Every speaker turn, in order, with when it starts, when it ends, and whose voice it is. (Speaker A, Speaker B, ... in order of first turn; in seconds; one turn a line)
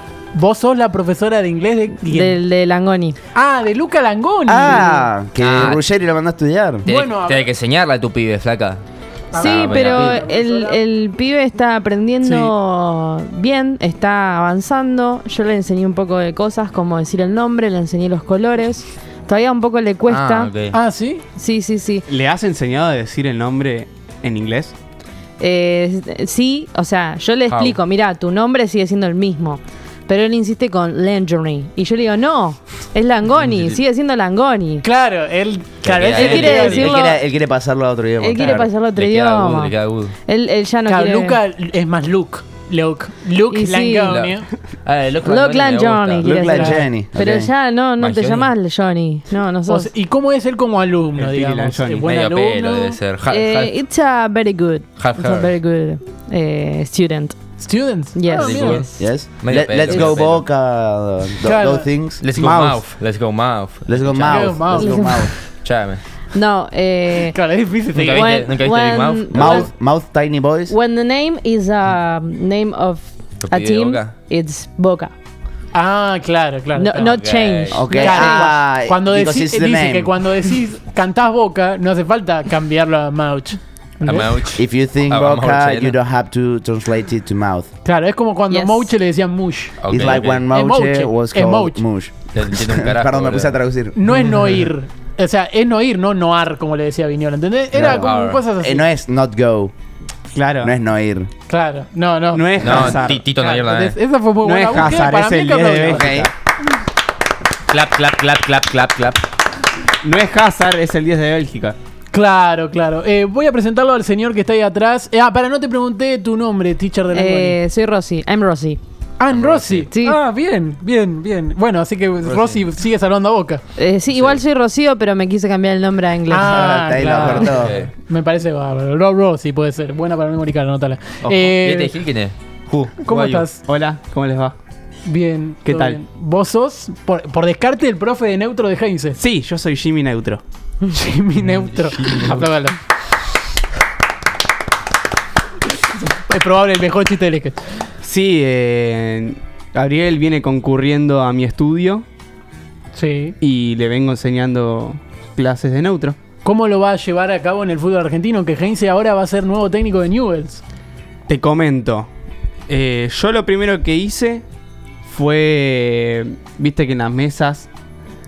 Speaker A: 0.3-2.4
Speaker B: 2.0-3.2
Speaker A: 3.3-5.1
Speaker C: 4.5-6.9
Speaker D: 5.4-5.8
Speaker D: 6.8-8.8
Speaker A: 6.9-7.5
Speaker A: 9.3-10.8
Speaker D: 9.3-10.2
Speaker B: 9.4-20.5
Speaker A: 12.2-12.5
Speaker D: 20.1-20.8
Speaker A: 20.7-21.2
Speaker B: 21.4-22.0
Speaker E: 22.1-24.7
Speaker B: 25.4-34.8
Speaker D: 27.5-27.8
Speaker D: 33.3-33.8
Speaker A: 34.8-36.9
Speaker D: 35.8-37.0
Speaker B: 36.1-37.2
Speaker C: 36.6-38.7
Speaker B: 38.2-39.7
Speaker D: 38.9-40.1
Speaker B: 40.2-41.4
Speaker A: 40.8-44.5
Speaker B: 43.5-44.1
Speaker D: 44.0-46.4
Speaker B: 45.2-49.9
Speaker C: 46.2-47.5
Speaker A: 46.5-46.9
Speaker D: 47.1-47.4
Speaker D: 48.0-48.5
Speaker A: 49.6-53.0
Speaker E: 51.1-52.1
Speaker D: 52.1-53.7
Speaker B: 53.3-57.4
Speaker D: 55.0-55.5
Speaker A: 57.6-58.8
Speaker B: 58.1-59.0
Speaker D: 58.3-60.5
Speaker C: 58.9-62.2
Speaker A: 61.4-61.9
Speaker D: 62.2-64.7
Speaker E: 62.3-62.9
Speaker C: 63.9-65.3
Speaker A: 64.2-65.3
Speaker B: 64.7-65.3
Speaker D: 65.6-66.0
Speaker B: 66.3-67.3
Speaker A: 67.3-68.4
Speaker D: 67.9-69.7
Speaker B: 68.1-69.7
Speaker C: 69.3-70.7
Speaker B: 70.7-75.1
Speaker D: 73.4-74.1
Speaker A: 75.7-77.2
Speaker B: 76.7-78.5
Speaker D: 77.1-78.0
Speaker C: 77.7-80.1
Speaker A: 78.0-84.5
Speaker D: 84.0-86.0
Speaker C: 84.5-87.7
Speaker A: 87.8-91.9
Speaker B: 88.5-88.9
Speaker D: 89.8-90.5
Speaker C: 89.9-94.0
Speaker D: 92.3-93.6
Speaker A: 93.9-98.9
Speaker C: 97.7-99.7
Speaker D: 98.0-98.4
Speaker E: 100.3-100.8
Speaker C: 100.6-101.3
Speaker A: 101.5-106.2
Speaker E: 102.3-103.3
Speaker D: 102.6-104.0
Speaker E: 104.4-106.3
Speaker C: 105.8-106.3
Speaker D: 107.7-109.2
Speaker E: 110.0-111.8
Speaker A: 112.1-117.6
Speaker B: 117.1-118.8
Speaker A: 119.2-123.6
Speaker D: 119.3-119.9
Speaker B: 119.9-120.2
Speaker D: 122.2-122.6
Speaker B: 123.7-126.6
Speaker D: 124.1-124.4
Speaker A: 126.3-132.0
Speaker C: 126.5-127.8
Speaker D: 127.1-127.9
Speaker D: 131.2-133.5
Speaker A: 133.0-133.6
Speaker E: 133.6-134.5
Speaker A: 135.0-139.2
Speaker E: 135.6-136.0
Speaker E: 139.2-140.4
Speaker A: 140.8-142.8
Speaker D: 141.8-142.4
Speaker A: 146.1-147.9
Speaker E: 148.0-152.0
Speaker A: 152.9-153.3
Speaker E: 153.4-156.2
Speaker A: 156.4-160.6
Speaker E: 161.3-162.1
Speaker E: 162.7-164.4
Speaker E: 165.0-167.7